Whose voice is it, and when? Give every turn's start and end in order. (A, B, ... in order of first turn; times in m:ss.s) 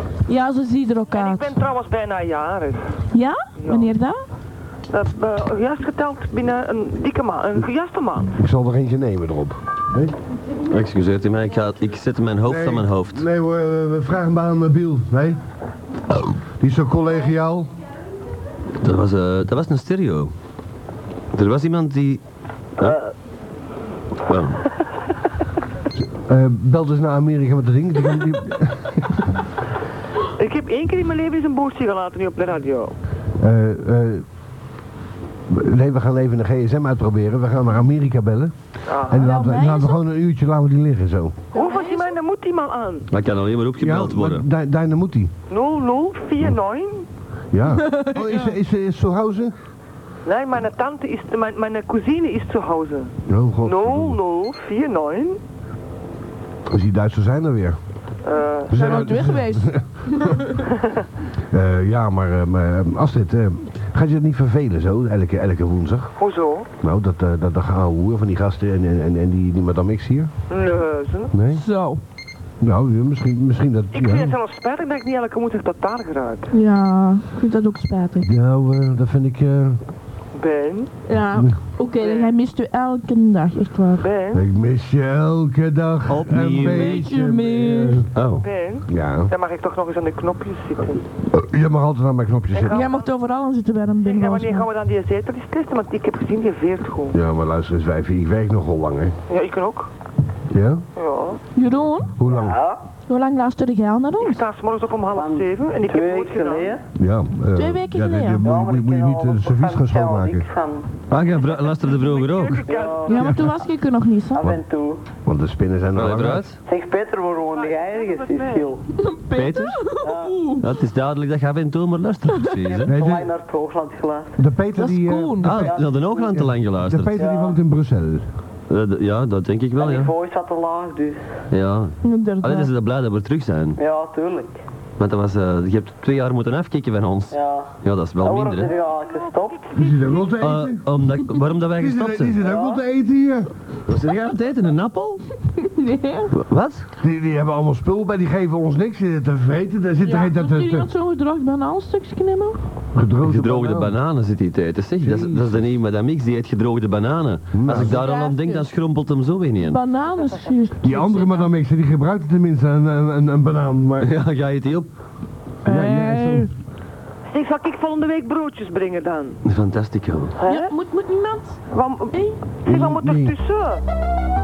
0:00.3-0:01.6 A
0:01.1-0:02.8 B
0:03.1-0:04.2 A
0:03.6-0:03.9 B
0:04.9-0:08.3 B
0:08.4-0:10.1 C
0:10.7-0:13.2 D
0:12.4-0:15.4 C
0:16.6-0:17.7 C
0:18.8-0:20.3 D
0:21.3-0:22.2 D
0:22.8-0:23.1 E
0:24.3-0:24.6 D
0:26.0-0:29.2 C
0:30.4-0:32.9 B
0:33.4-0:34.2 C
0:35.5-0:38.5 C
0:38.9-0:39.2 B
0:39.1-0:41.4 C
0:39.1-0:40.0 A
0:41.5-0:43.1 B
0:41.5-0:42.1 A
0:43.1-0:44.4 D
0:43.8-0:45.3 C
0:45.5-0:47.0 B
0:47.5-0:49.5 C
0:47.8-0:48.5 A
0:50.2-0:53.1 B
0:53.3-0:54.2 C
0:53.6-0:55.4 B
0:56.7-0:57.8 C
0:58.2-0:59.0 B
0:58.7-1:00.4 C
0:58.7-1:00.4 A
1:01.5-1:06.1 C
1:06.2-1:06.7 B
1:06.8-1:10.3 C
1:10.5-1:11.3 B
1:11.3-1:11.6 C
1:11.5-1:12.0 A
1:12.6-1:14.4 C
1:13.9-1:16.5 B
1:16.5-1:18.3 A
1:18.2-1:19.8 C
1:20.4-1:20.9 B
1:21.1-1:24.0 A
1:22.0-1:22.3 B
1:24.0-1:24.4 B
1:24.3-1:28.1 C
1:26.1-1:27.1 D
1:26.6-1:28.0 A
1:28.1-1:28.4 D
1:28.4-1:31.0 B
1:28.9-1:29.3 C
1:31.3-1:32.9 C
1:32.5-1:33.1 B
1:32.7-1:34.7 A
1:34.0-1:37.2 B
1:37.1-1:39.1 C
1:39.3-1:39.9 B
1:40.5-1:40.8 C
1:41.0-1:41.4 B
1:41.6-1:42.1 A
1:42.2-1:42.6 C
1:42.3-1:42.8 E
1:43.1-1:44.4 A
1:44.2-1:46.7 B
1:45.1-1:46.8 E
1:46.9-1:50.5 C
1:47.5-1:48.4 A
1:48.4-1:50.9 E
1:51.1-1:52.7 D
1:51.8-1:53.2 B
1:52.6-1:53.3 E
1:53.1-1:54.4 A
1:53.1-1:53.6 C
1:54.3-1:55.0 E
1:55.2-1:56.5 C
1:56.0-1:56.6 D
1:56.6-1:58.8 E
1:57.5-1:58.7 B
1:59.0-2:00.6 A
1:59.3-1:59.8 D
2:00.0-2:00.4 E
2:00.6-2:02.9 D
2:02.7-2:04.4 E
2:02.8-2:03.3 C
2:04.4-2:05.7 C
2:04.8-2:05.5 A
2:05.4-2:07.2 D
2:05.4-2:06.4 E
2:06.4-2:08.2 C
2:07.1-2:07.6 E
2:08.7-2:10.1 D
2:09.8-2:11.2 E
2:11.5-2:13.8 D
2:12.0-2:12.7 A
2:13.8-2:14.6 E
2:15.0-2:18.7 D
2:17.3-2:17.7 E
2:18.2-2:19.6 E
2:18.6-2:20.3 B
2:19.7-2:20.8 C
2:20.4-2:22.4 D
2:21.7-2:23.5 C
2:22.4-2:22.8 E
2:23.9-2:25.2 D
2:25.6-2:26.3 A
2:26.3-2:26.8 D
2:27.0-2:30.9 C
2:30.0-2:32.6 A
2:32.9-2:34.0 C
2:33.2-2:39.8 D
2:35.0-2:35.7 C
2:37.5-2:38.0 C
2:37.7-2:38.6 A
2:39.6-2:41.5 A
2:40.8-2:44.1 C
2:44.0-2:44.9 D
2:45.6-2:46.5 C
2:45.6-2:46.5 A
2:47.3-2:49.4 B
2:49.4-2:50.3 D
2:50.4-2:50.7 B
2:50.4-2:51.6 A
2:51.7-2:53.8 B
2:52.1-2:52.4 A
2:52.6-2:53.3 C